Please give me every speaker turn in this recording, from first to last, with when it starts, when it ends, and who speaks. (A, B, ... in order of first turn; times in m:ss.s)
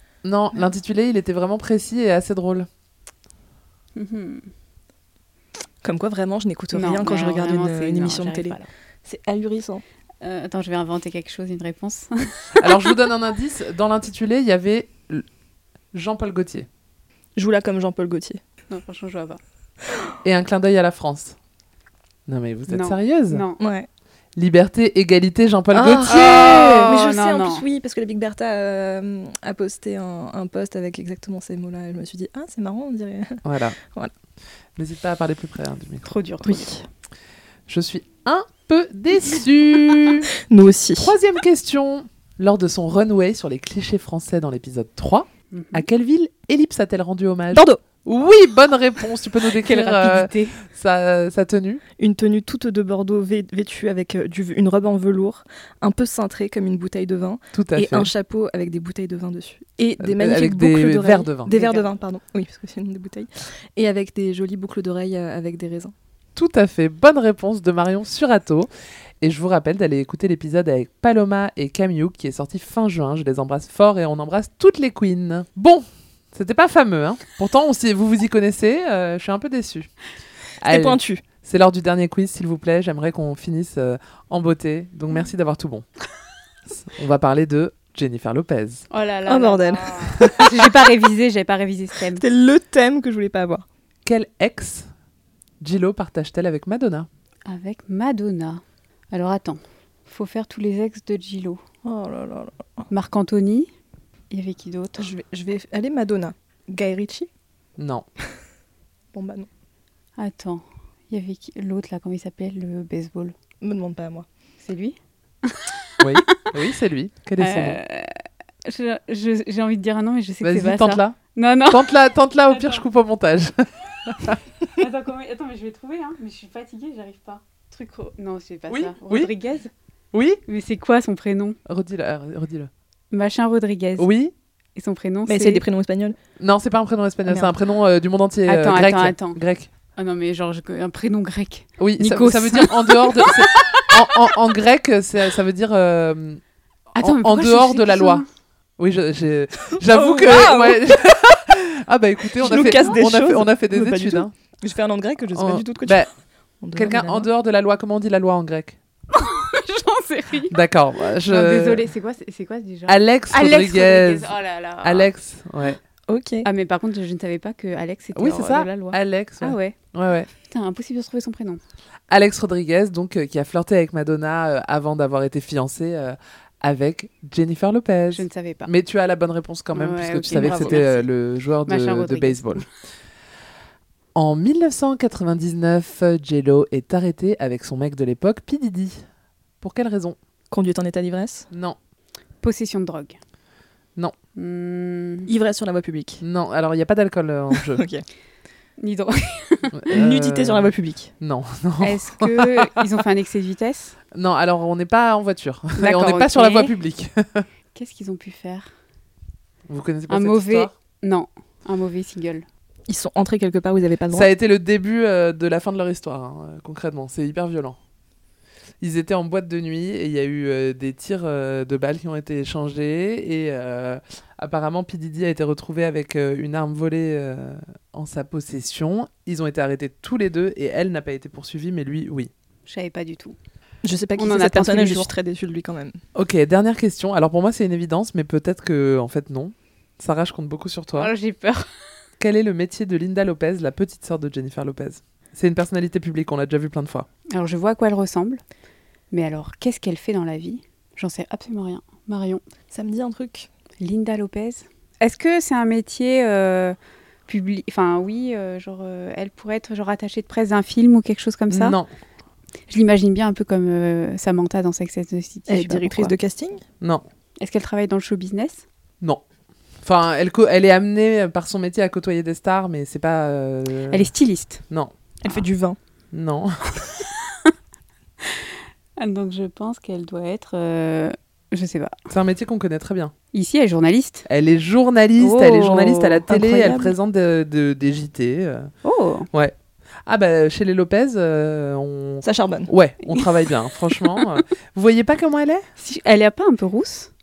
0:00.2-0:02.7 A
0:04.0-0:04.5 B
0:05.8-0:09.8 C
0:06.7-0:08.7 B
0:10.2-0:12.6 B
0:12.6-0:15.2 A
0:15.9-0:16.7 A
0:17.4-0:18.4 C
0:18.7-0:19.4 B
0:20.2-0:21.4 A
0:22.3-0:23.4 A
0:22.7-0:23.6 B
0:23.6-0:23.9 C
0:24.4-0:26.7 A
0:26.1-0:34.1 C
0:26.5-0:27.6 B
0:33.4-0:33.8 A
0:34.8-0:36.1 A
0:36.1-0:36.6 B
0:36.2-0:36.8 C
0:37.7-0:40.3 A
0:40.5-0:41.2 C
0:41.0-0:51.8 A
0:45.5-0:45.8 B
0:47.5-0:47.8 C
0:49.6-0:50.6 B
0:52.0-1:05.9 C
0:57.5-0:58.1 A
1:00.0-1:01.8 A
1:06.4-1:08.7 A
1:09.2-1:19.9 A
1:20.6-1:25.8 A
1:20.6-1:21.2 C
1:26.9-1:28.9 A
1:28.9-1:32.2 B
1:29.2-1:31.0 C
1:32.0-1:33.6 C
1:34.0-1:34.9 A
1:35.6-1:37.1 A
1:37.5-1:41.6 B
1:41.8-1:42.9 C
1:42.9-1:43.7 B
1:44.3-1:45.1 B
1:45.0-1:47.3 C
1:47.8-1:48.0 A
1:49.1-1:49.5 C
1:50.2-1:53.3 B
1:53.6-1:54.3 C
1:54.6-1:55.0 B
1:56.0-1:57.8 A
1:57.4-1:58.1 B
1:58.6-2:01.9 B
2:00.4-2:04.4 A
2:02.5-2:02.8 B
2:04.8-2:09.7 B
2:08.7-2:09.3 A
2:10.1-2:10.4 A
2:10.5-2:11.6 B
2:11.6-2:12.7 A
2:13.1-2:14.1 B
2:14.0-2:14.3 A
2:14.7-2:15.6 B
2:15.2-2:16.2 C
2:16.4-2:19.7 A
2:17.2-2:17.6 C
2:18.5-2:19.4 B
2:20.0-2:23.6 B
2:21.8-2:26.4 A
2:26.9-2:28.3 B
2:27.0-2:28.2 A
2:28.8-2:34.3 A
2:30.0-2:30.8 C
2:32.4-2:36.0 C
2:32.6-2:32.9 B
2:35.3-2:36.1 A
2:36.6-2:37.3 C
2:36.7-2:38.8 A
2:39.1-2:40.6 B
2:40.5-2:41.9 A
2:41.2-2:45.1 B
2:42.9-2:45.8 A
2:46.1-2:46.5 C
2:46.4-2:49.8 B
2:48.1-2:50.3 A
2:50.4-2:51.6 B
2:52.1-3:02.6 A
2:58.1-2:58.7 B
2:59.7-3:01.0 B
3:00.3-3:01.1 C
3:01.6-3:02.6 B
3:04.1-3:09.0 A
3:09.6-3:10.2 A
3:10.5-3:11.5 C
3:11.5-3:11.8 A
3:12.4-3:13.2 B
3:14.3-3:15.3 B
3:15.2-3:16.2 C
3:16.2-3:17.8 A
3:17.5-3:18.0 C
3:18.8-3:19.7 B
3:19.7-3:22.7 A
3:19.9-3:21.1 C
3:21.8-3:24.0 B
3:24.1-3:27.4 A
3:25.8-3:26.7 B
3:27.7-3:28.7 B
3:29.7-3:30.7 A
3:30.1-3:32.4 B
3:32.9-3:34.3 C
3:34.1-3:37.8 A
3:38.8-3:52.3 A
3:52.6-3:53.4 B
3:53.8-3:56.0 C
3:54.1-3:55.1 B
3:56.1-4:01.1 A
4:01.0-4:01.7 B
4:02.2-4:07.1 A
4:07.3-4:08.4 B
4:09.1-4:12.4 B
4:12.7-4:13.5 C
4:13.8-4:16.8 B
4:17.3-4:21.8 B
4:21.5-4:21.9 A
4:22.7-4:26.1 B
4:25.5-4:26.6 C
4:27.4-4:28.6 B
4:29.8-4:34.1 A
4:33.9-4:34.6 B
4:35.2-4:35.8 C
4:36.1-4:36.8 A
4:39.0-4:42.0 B
4:42.1-4:43.1 A
4:43.3-4:44.2 B
4:44.3-4:48.7 A
4:45.2-4:46.2 B
4:45.6-4:46.9 C
4:48.8-4:49.3 B
4:50.0-4:55.6 A
4:52.2-4:53.2 C
4:55.8-4:57.1 B